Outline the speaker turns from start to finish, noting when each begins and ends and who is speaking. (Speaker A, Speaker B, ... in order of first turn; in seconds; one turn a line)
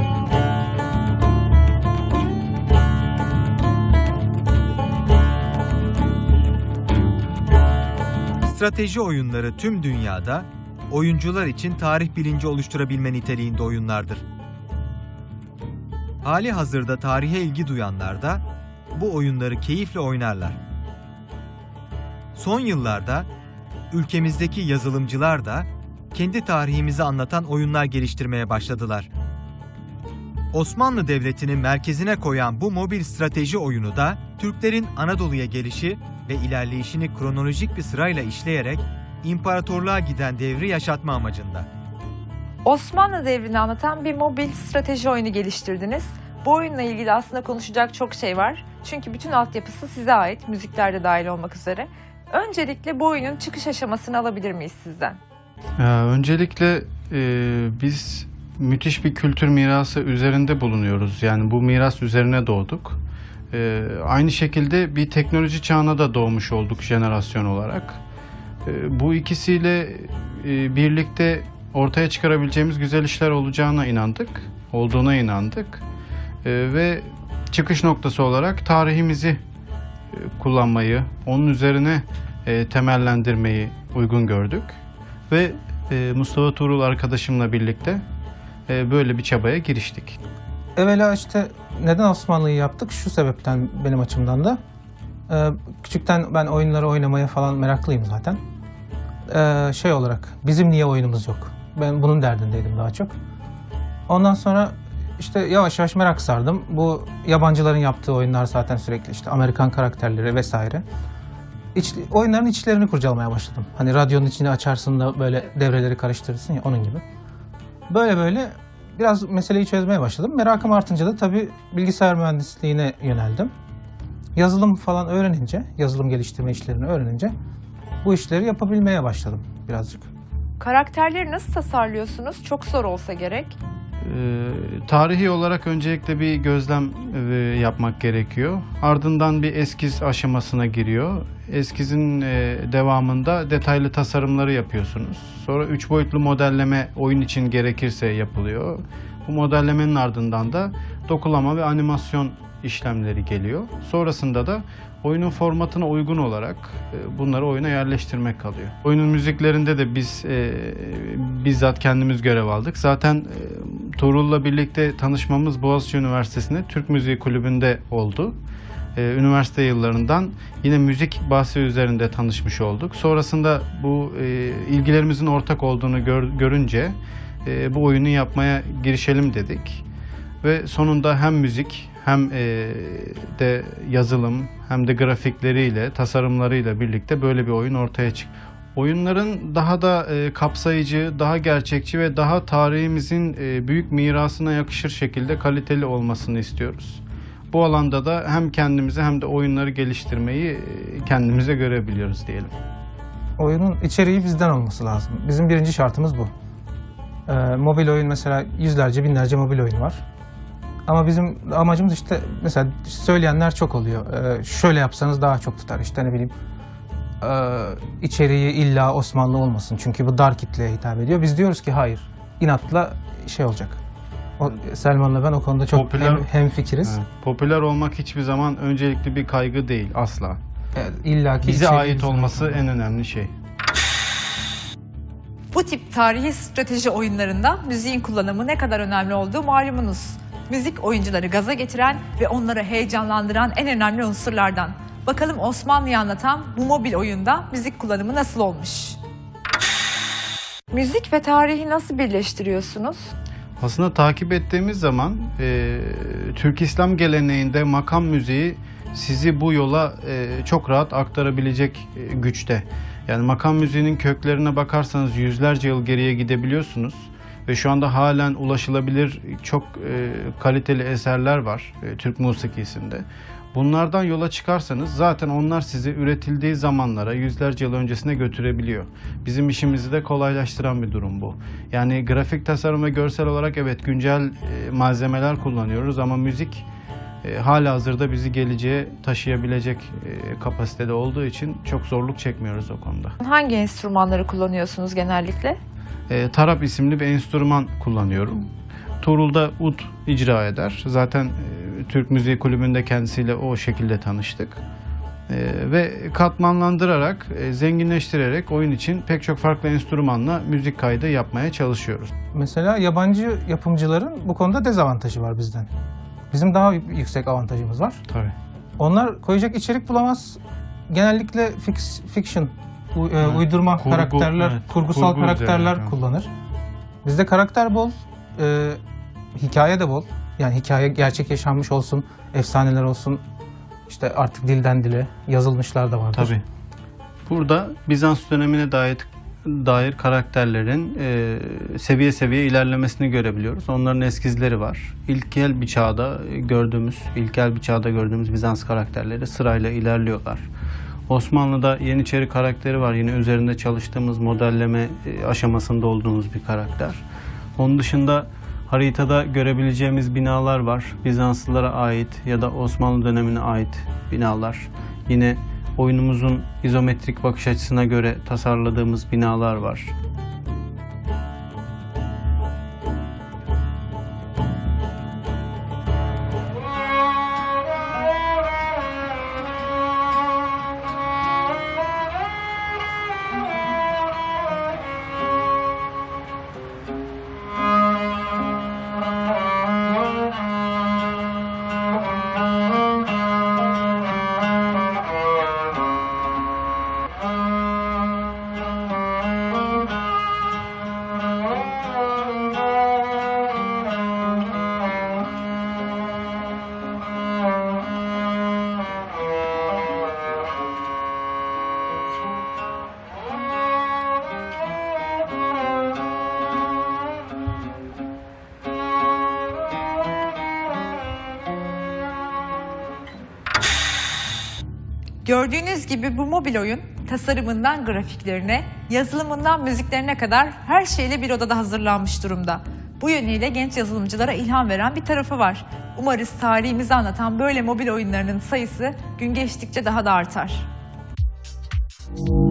Speaker A: 8.4-14.2
Speaker A: 16.2-20.6
Speaker A: 22.3-23.3
Speaker A: 23.9-29.1
Speaker A: 30.5-41.7
Speaker B: 42.6-55.2
Speaker C: 55.8-63.0
Speaker C: 63.5-68.0
Speaker C: 68.6-75.8
Speaker C: 76.4-79.4
Speaker C: 80.1-88.0
Speaker C: 88.7-90.2
Speaker D: 90.8-94.6
Speaker D: 95.3-98.4
Speaker D: 99.3-103.1
Speaker D: 104.1-110.8
Speaker D: 111.7-117.0
Speaker D: 117.9-123.5
Speaker D: 124.3-127.3
Speaker D: 128.0-130.1
Speaker B: 130.6-133.6
Speaker C: 134.0-168.4
Speaker C: 168.9-179.8
Speaker C: 180.4-202.5
Speaker D: 203.4-206.3
Speaker D: 207.3-210.0
Speaker D: 210.8-216.3
Speaker D: 217.2-223.8
Speaker D: 224.4-227.0
Speaker C: 225.7-226.3
Speaker C: 226.8-230.4
Speaker D: 230.7-232.7
Speaker C: 231.4-233.3
Speaker B: 235.5-249.0
Speaker B: 250.7-253.1
Speaker C: 253.6-286.6
Speaker C: 287.2-293.1
Speaker B: 293.2-295.6
Speaker C: 296.1-298.5
Speaker C: 299.0-304.6
Speaker C: 305.3-312.1
Speaker D: 312.3-315.7
Speaker D: 316.3-318.0
Speaker C: 318.1-318.3
Speaker D: 318.8-326.3
Speaker C: 323.2-325.9
Speaker D: 327.0-328.8
Speaker D: 329.3-333.2
Speaker D: 333.9-336.4
Speaker C: 336.1-336.4
Speaker C: 337.3-350.5
Speaker C: 351.1-357.0
Speaker C: 357.6-369.9
Speaker B: 425.2-440.7